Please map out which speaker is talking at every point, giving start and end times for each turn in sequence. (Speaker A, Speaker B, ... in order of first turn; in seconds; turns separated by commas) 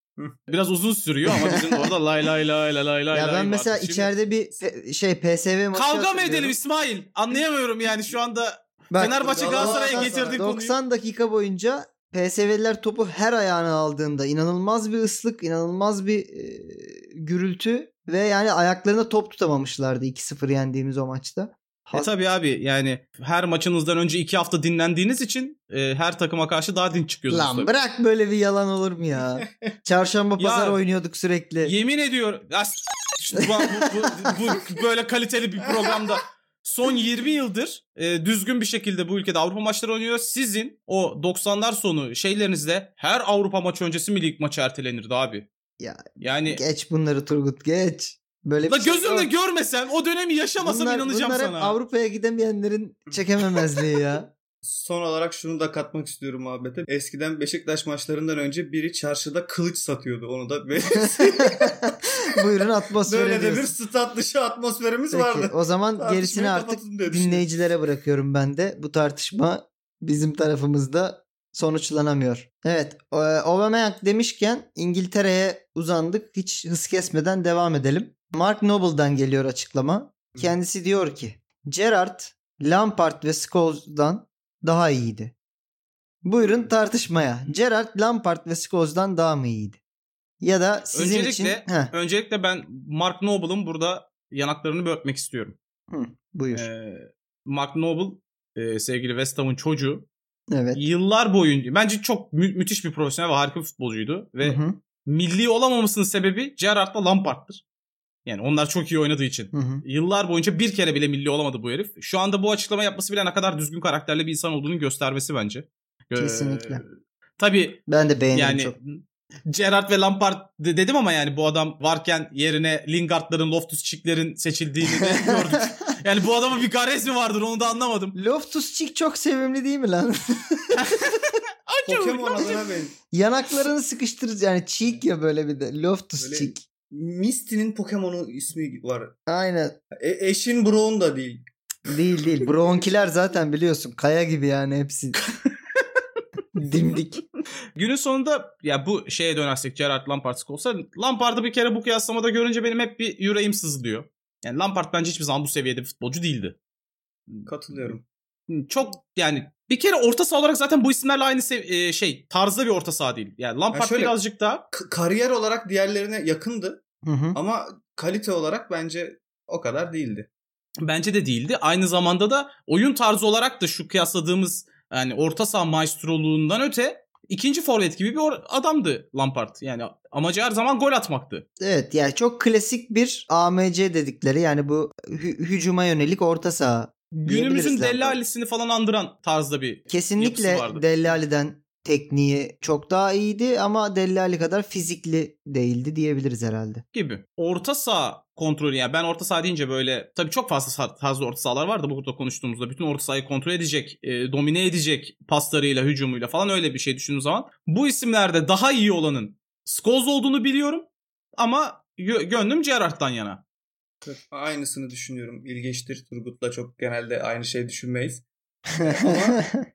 Speaker A: 0.5-4.1, Speaker B: 3.1-6.5, Speaker A: 5.7-10.8, Speaker B: 8.9-22.1, Speaker C: 9.0-10.4, Speaker A: 21.9-27.7, Speaker B: 27.3-31.7, Speaker A: 30.4-30.8, Speaker A: 31.6-45.5, Speaker B: 33.6-33.9, Speaker B: 45.8-49.3, Speaker A: 46.2-46.6, Speaker A: 48.6-51.8, Speaker B: 50.6-54.3, Speaker C: 54.6-61.8, Speaker B: 61.0-63.7, Speaker C: 63.0-67.5, Speaker B: 65.1-85.3, Speaker B: 86.2-89.8, Speaker C: 86.4-86.7, Speaker B: 90.4-91.9, Speaker A: 90.9-95.5, Speaker B: 95.9-96.7, Speaker A: 96.5-100.1, Speaker B: 100.5-100.8, Speaker A: 100.7-107.6, Speaker B: 104.4-104.8, Speaker A: 108.2-116.8, Speaker B: 109.5-109.8, Speaker B: 116.2-116.8, Speaker A: 117.4-117.8, Speaker B: 117.9-118.8, Speaker A: 118.3-128.2, Speaker B: 125.2-125.6, Speaker B: 128.1-130.8, Speaker A: 130.7-132.6, Speaker C: 131.8-132.9, Speaker B: 133.1-136.6, Speaker C: 136.2-139.1, Speaker B: 139.3-139.8, Speaker C: 139.9-141.4, Speaker B: 141.9-145.2, Speaker B: 146.5-147.2, Speaker A: 147.8-156.6, Speaker C: 157.5-158.0, Speaker A: 158.5-164.6, Speaker C: 163.7-164.2, Speaker C: 164.7-166.8, Speaker B: 167.0-167.4, Speaker C: 167.3-170.3, Speaker A: 170.8-181.4, Speaker B: 181.6-188.2, Speaker A: 187.1-190.8, Speaker B: 189.9-196.8, Speaker A: 196.9-213.4, Speaker C: 214.0-218.2, Speaker C: 218.8-219.4, Speaker B: 219.0-219.6